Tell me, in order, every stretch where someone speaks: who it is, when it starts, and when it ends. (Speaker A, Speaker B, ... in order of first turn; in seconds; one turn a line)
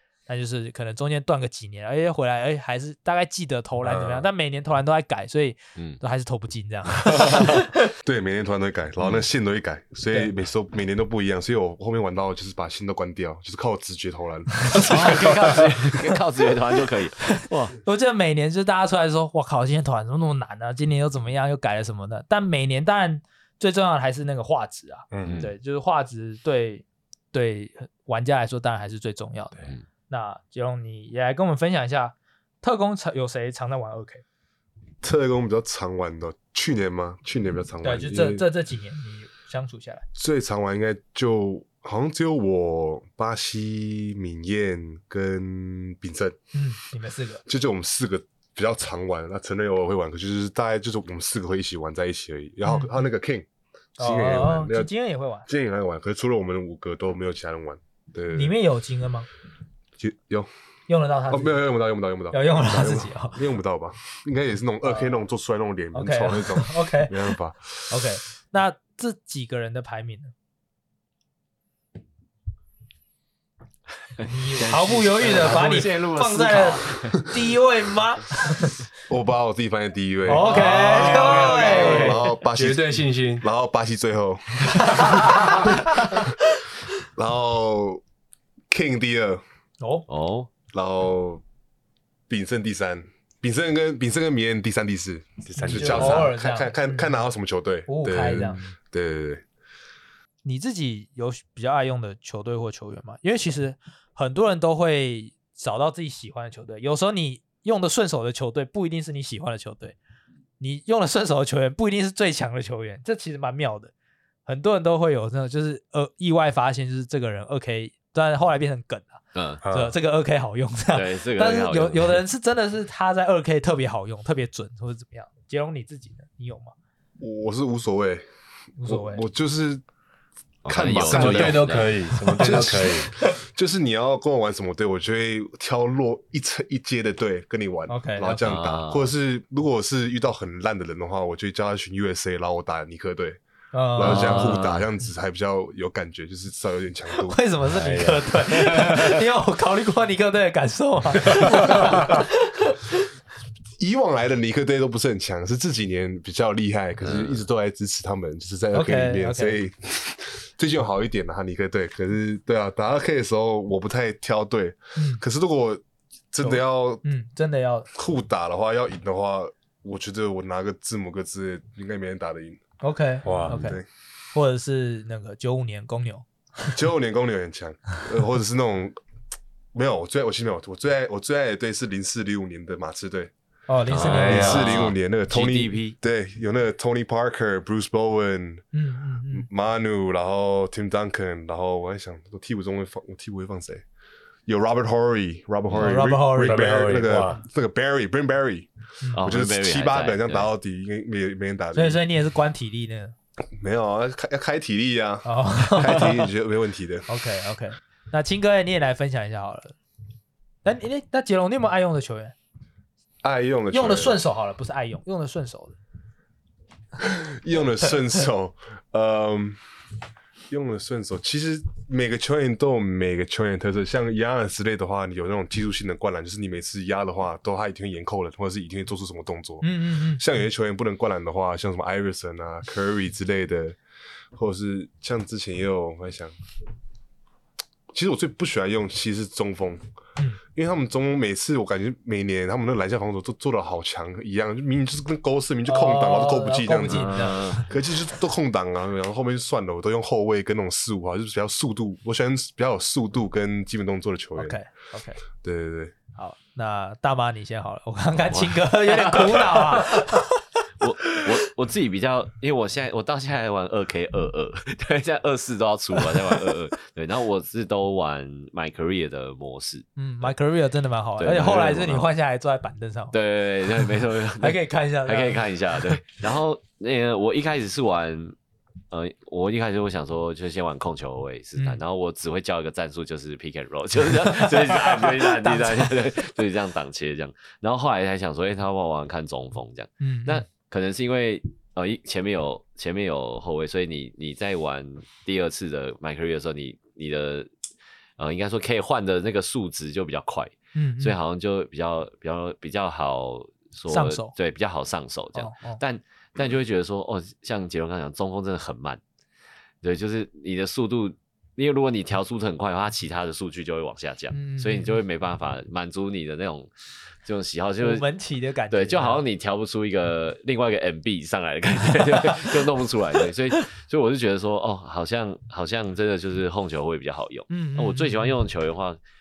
Speaker A: 0.3-7.7
Speaker B: 3.8-4.2
Speaker C: 7.0-7.3
Speaker D: 8.0-15.2
Speaker C: 14.8-17.8
Speaker B: 14.8-15.6
Speaker A: 17.3-29.6
Speaker B: 25.1-25.4
Speaker C: 25.2-25.5
Speaker A: 30.1-34.2
Speaker D: 35.0-38.5
Speaker A: 37.8-40.0
Speaker D: 40.1-46.4
Speaker A: 46.5-47.4
Speaker D: 47.4-53.5
Speaker A: 52.6-53.0
Speaker D: 54.0-54.9
Speaker A: 54.0-55.5
Speaker D: 55.5-58.5
Speaker A: 58.3-59.3
Speaker D: 60.0-60.5
Speaker A: 60.9-61.6
Speaker D: 61.3-67.9
Speaker A: 62.3-63.4
Speaker A: 64.8-65.1
Speaker A: 65.9-67.2
Speaker A: 67.9-70.3
Speaker C: 74.2-77.2
Speaker A: 74.2-78.8
Speaker B: 75.1-75.9
Speaker D: 79.1-86.2
Speaker A: 80.3-82.2
Speaker B: 80.3-83.4
Speaker C: 81.0-82.1
Speaker A: 84.8-85.7
Speaker D: 87.1-88.0
Speaker D: 88.7-89.4
Speaker A: 89.8-90.1
Speaker C: 90.1-90.5
Speaker D: 90.7-91.4
Speaker D: 92.3-99.4
Speaker B: 95.5-96.3
Speaker A: 95.6-97.2
Speaker A: 97.9-98.7
Speaker A: 100.4-110.0
Speaker A: 110.6-113.9
Speaker A: 114.5-126.7
Speaker C: 119.3-119.6
Speaker B: 119.6-119.9
Speaker C: 120.9-122.2
Speaker D: 127.2-128.2
Speaker A: 128.8-129.2
Speaker D: 128.8-129.8
Speaker C: 130.6-132.0
Speaker D: 130.7-131.8
Speaker B: 130.9-133.1
Speaker A: 132.2-133.3
Speaker D: 132.4-143.4
Speaker A: 137.9-138.5
Speaker C: 138.4-139.1
Speaker A: 143.7-144.6
Speaker D: 143.9-147.4
Speaker C: 144.0-144.8
Speaker A: 147.2-152.9
Speaker B: 147.7-149.1
Speaker B: 151.3-151.6
Speaker D: 153.8-167.0
Speaker C: 157.0-157.4
Speaker A: 158.7-159.6
Speaker A: 164.9-165.2
Speaker A: 166.4-167.9
Speaker D: 167.9-172.6
Speaker A: 172.8-173.8
Speaker B: 173.2-173.6
Speaker D: 173.4-173.8
Speaker A: 174.3-176.8
Speaker D: 176.7-178.9
Speaker D: 179.7-183.3
Speaker A: 183.7-184.6
Speaker C: 183.9-185.9
Speaker B: 184.0-184.7
Speaker D: 184.1-188.6
Speaker A: 188.7-189.5
Speaker D: 189.3-193.8
Speaker D: 194.4-202.0
Speaker A: 195.7-196.7
Speaker B: 196.4-197.4
Speaker C: 199.2-200.5
Speaker A: 201.7-203.1
Speaker D: 203.5-207.1
Speaker A: 205.2-206.2
Speaker A: 207.1-209.8
Speaker A: 210.6-212.3
Speaker D: 213.2-214.2
Speaker A: 213.7-215.8
Speaker D: 217.0-219.6
Speaker D: 220.5-233.8
Speaker A: 229.6-230.2
Speaker D: 234.3-236.3
Speaker D: 237.9-239.8
Speaker D: 240.5-254.6
Speaker A: 245.7-247.6
Speaker C: 246.9-247.7
Speaker A: 254.4-255.2
Speaker D: 255.4-255.9
Speaker A: 256.1-260.4
Speaker C: 258.3-260.1
Speaker C: 260.8-270.3
Speaker A: 270.0-273.1
Speaker C: 271.2-272.1
Speaker C: 273.1-278.4
Speaker A: 274.4-276.0
Speaker C: 278.9-297.5
Speaker A: 284.2-286.0
Speaker A: 290.0-290.4
Speaker C: 298.2-309.0
Speaker A: 300.7-301.2
Speaker A: 303.9-304.3
Speaker A: 305.3-305.8
Speaker C: 309.8-316.7
Speaker A: 314.3-315.0
Speaker C: 317.2-318.1
Speaker A: 317.8-319.2
Speaker C: 318.7-329.0
Speaker A: 327.5-328.4